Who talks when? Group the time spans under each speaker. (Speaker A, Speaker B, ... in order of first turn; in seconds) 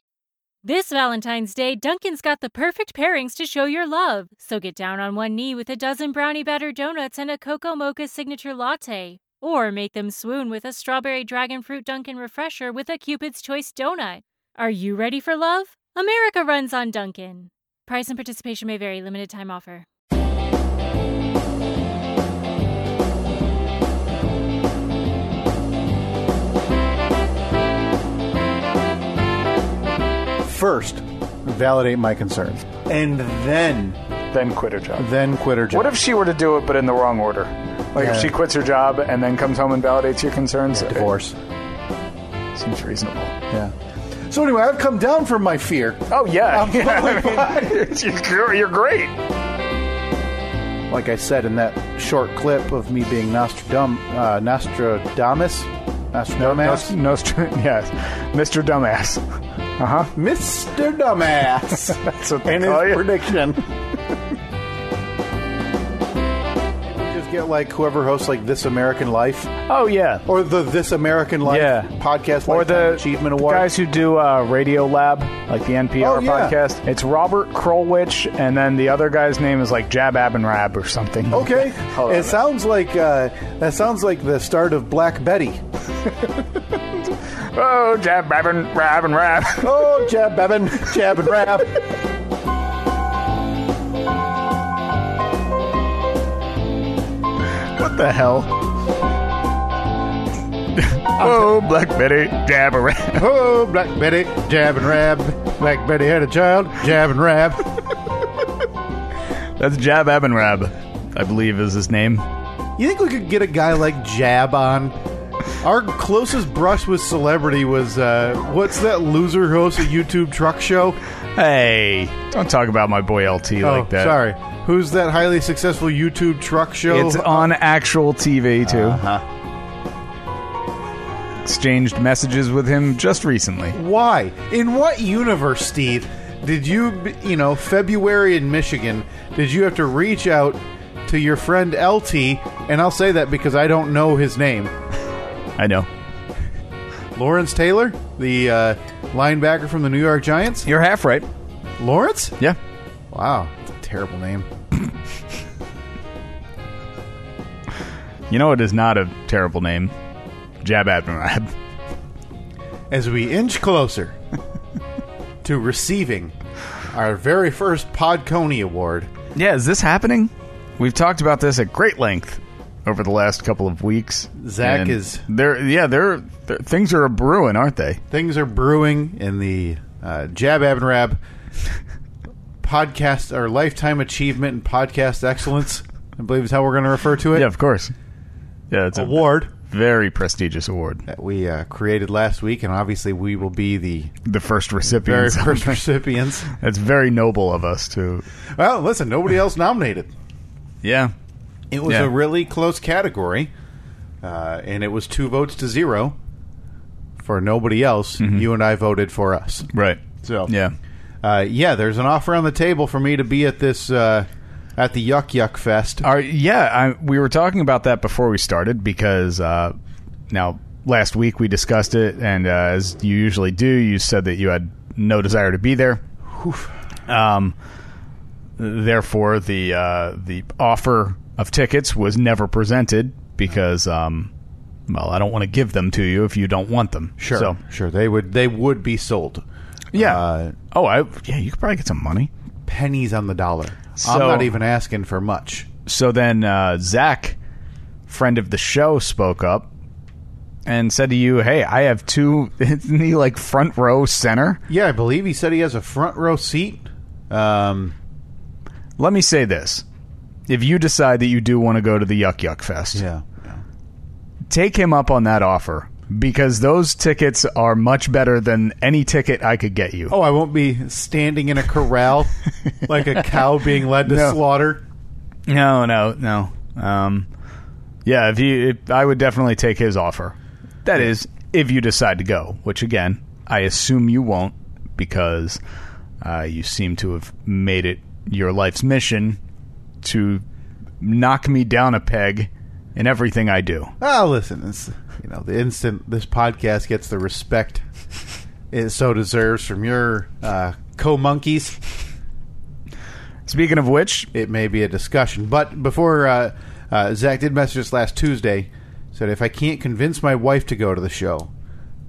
Speaker A: 0.6-19.9
Speaker B: 30.4-34.0, 35.0-36.0, 38.0-38.4, 40.7-41.4, 44.3-47.9, 50.9-57.0, 60.1-63.6, 66.8-69.5, 70.3-73.7, 76.0-76.6, 81.3-85.6, 89.6-91.8, 101.2-101.5, 103.2-107.7, 112.8-115.0, 115.5-121.0, 123.6-127.5, 128.6-129.3, 133.7-144.7, 147.2-150.7, 151.8-152.4, 153.1-154.5, 162.9-164.2, 165.4-166.3, 166.9-169.1, 174.4-175.2, 178.1-181.2, 182.6-187.5, 188.9-189.5, 191.1-194.1, 194.8-196.5, 198.4-200.1, 201.7-203.5, 204.2-206.2, 207.2-210.5, 211.2-216.1, 226.3-226.7, 237.2-239.4, 239.9-240.6, 242.7-245.7, 254.7-257.9, 262.9-263.6, 270.1-274.8, 294.0-297.9, 298.7-301.8, 304.3-311.5
Speaker C: 34.3-35.1, 35.7-41.1, 42.5-43.4, 46.1-49.1, 56.4-59.2, 59.8-60.1, 61.9-63.1, 69.7-70.2, 71.5-71.9, 72.5-82.4, 86.9-89.7, 97.7-98.6, 100.8-103.3, 109.6-112.2, 121.4-124.2, 126.9-129.0, 131.4-133.8, 145.6-145.9, 150.7-151.3, 158.3-159.9, 160.6-161.5, 169.3-178.0, 187.3-187.9, 188.7-191.1, 194.2-195.8, 196.5-198.3, 200.8-201.1, 201.9-202.1, 208.2-208.5, 209.7-210.8, 216.0-219.8, 220.3-226.0, 227.1-227.6, 228.6-234.3, 234.9-237.6, 239.9-242.3, 244.0-244.5, 245.9-247.4, 248.1-249.7, 250.7-254.6, 259.0-259.8, 260.5-263.1, 264.5-270.1, 274.0-274.4, 275.5-277.3, 278.1-285.6, 286.2-289.4, 290.0-290.4, 291.0-293.9, 303.5-304.3